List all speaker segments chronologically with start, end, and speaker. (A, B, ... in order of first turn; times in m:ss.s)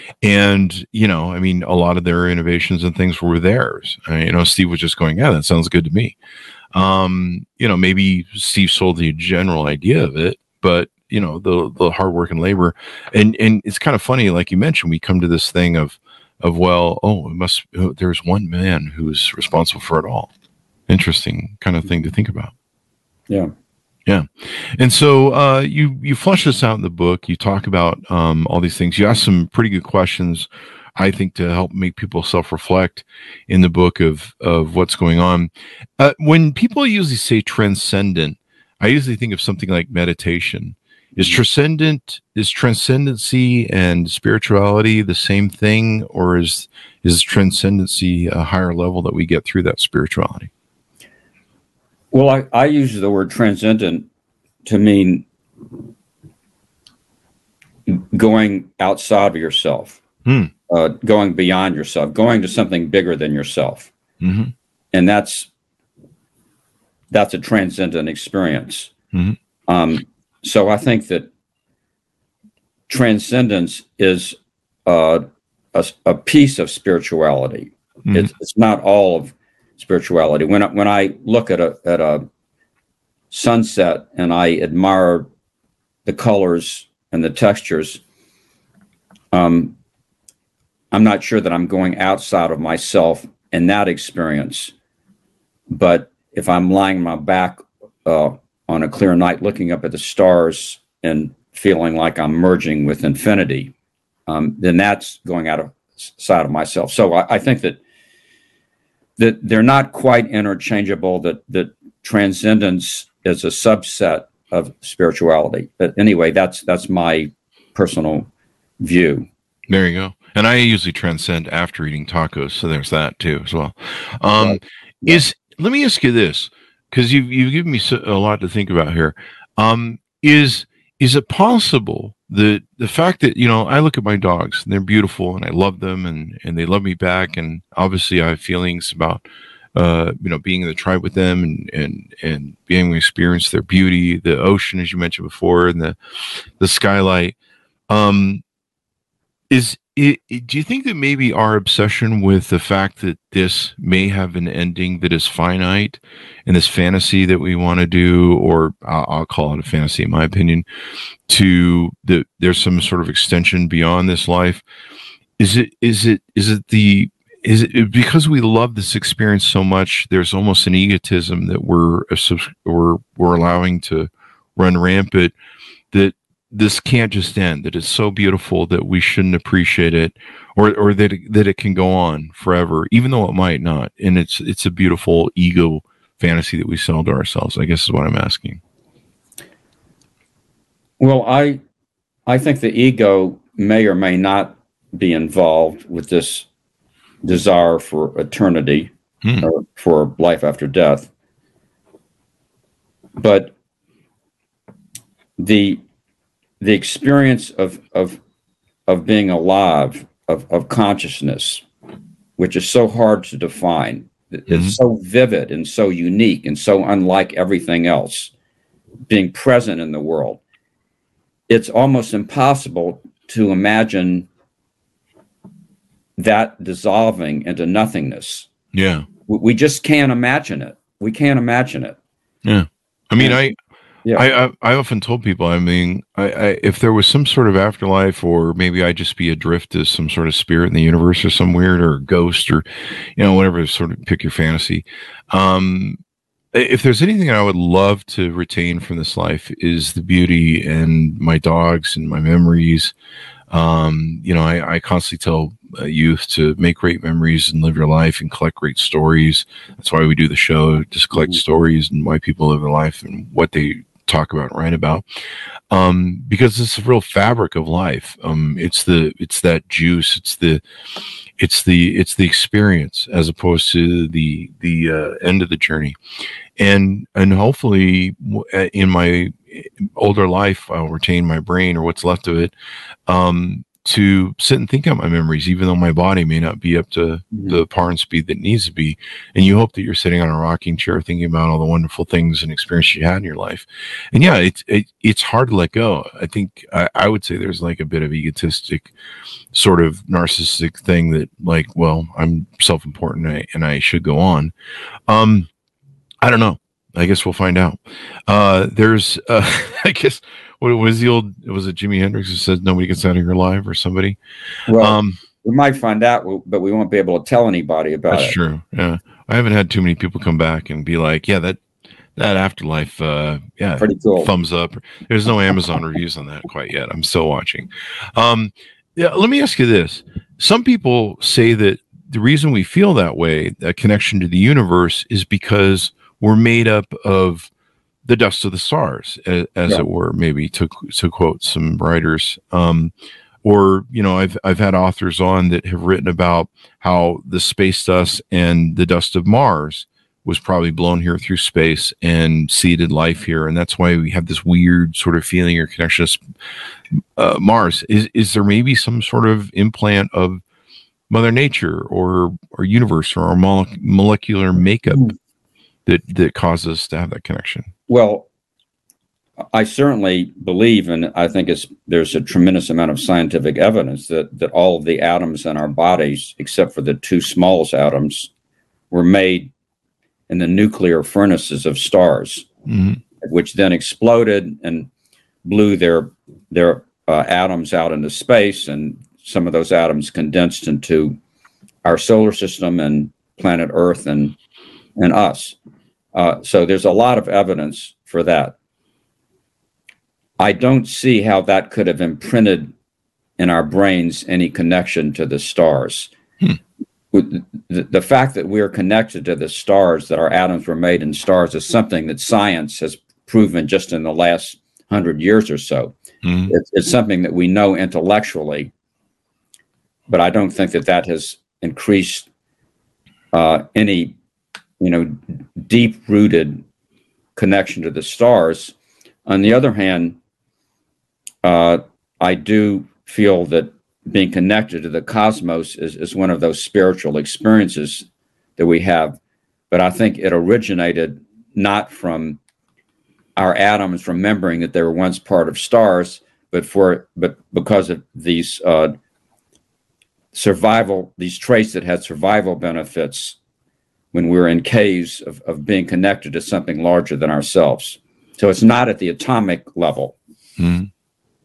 0:00.2-0:06.2 A
0:06.7-0:20.3 A
0:20.9-0:22.5 A
0:24.0-0:50.5 A
0:52.1-0:54.1 B
0:54.6-0:55.2 B
0:57.9-1:00.0 B
1:00.2-1:00.5 A
1:00.7-1:03.9 B
1:04.2-1:04.5 A
1:04.9-1:05.5 B
1:07.1-1:08.9 B
1:09.7-1:11.3 B
1:12.9-1:22.2 B
1:23.3-1:25.3 B
1:26.0-1:28.0 B
1:29.3-1:29.7 B
1:30.9-1:34.7 B
1:35.7-1:43.7 B
1:44.3-1:47.8 B
1:49.2-1:58.3 B
1:58.8-1:59.3 B
1:59.7-2:19.2 A
2:04.4-2:05.2 B
2:19.7-2:26.0 A
2:26.6-2:27.4 A
2:27.9-2:28.4 A
2:29.5-2:40.6 A
2:41.3-2:44.6 A
2:45.4-2:55.3 A
2:55.9-3:08.6 A
3:11.0-3:11.6 B
3:12.3-3:16.5 B
3:17.2-3:18.9 B
3:19.2-3:19.5 A
3:19.4-3:21.1 B
3:23.2-3:23.5 B
3:25.4-3:25.8 B
3:26.6-3:28.2 B
3:28.9-3:31.6 B
3:32.4-3:38.3 B
3:34.5-3:34.8 A
3:39.1-3:40.4 B
3:41.5-3:44.3 B
3:46.2-3:48.5 B
3:48.7-3:49.0 A
3:49.3-3:52.0 B
3:52.4-3:53.6 A
3:54.1-4:02.6 A
4:03.2-4:06.0 A
4:06.5-4:12.9 A
4:13.5-4:25.0 A
4:25.7-4:30.6 A
4:31.4-4:36.0 A
4:36.6-4:42.5 A
4:43.1-4:58.9 A
4:59.5-5:04.5 A
5:05.1-5:05.5 A
5:06.2-5:14.2 A
5:14.7-5:18.4 B
5:14.7-5:15.2 A
5:18.1-5:21.6 A
5:22.2-5:37.5 A
5:23.8-5:24.3 B
5:38.0-5:42.9 A
5:43.4-5:56.2 A
5:57.0-6:00.4 A
6:01.1-6:05.1 A
6:05.8-6:07.7 A
6:07.9-6:08.3 B
6:09.5-6:18.3 B
6:18.9-6:19.5 B
6:20.3-6:22.5 B
6:22.7-6:23.0 A
6:23.2-6:24.9 B
6:25.4-6:31.2 B
6:31.8-6:34.4 B
6:35.0-6:35.6 B
6:36.1-6:38.5 B
6:40.4-6:42.7 B
6:43.4-6:46.1 B
6:47.1-6:55.9 B
6:56.2-6:56.5 A
6:56.5-6:58.7 B
7:00.1-7:02.3 B
7:03.3-7:04.1 B
7:04.8-7:06.6 B
7:07.4-7:08.7 B
7:09.2-7:10.2 B
7:11.4-7:18.0 B
7:18.6-7:19.2 B
7:19.7-7:22.4 B
7:23.4-7:29.0 B
7:30.3-7:33.4 B
7:34.1-7:40.2 B
7:40.6-7:40.9 A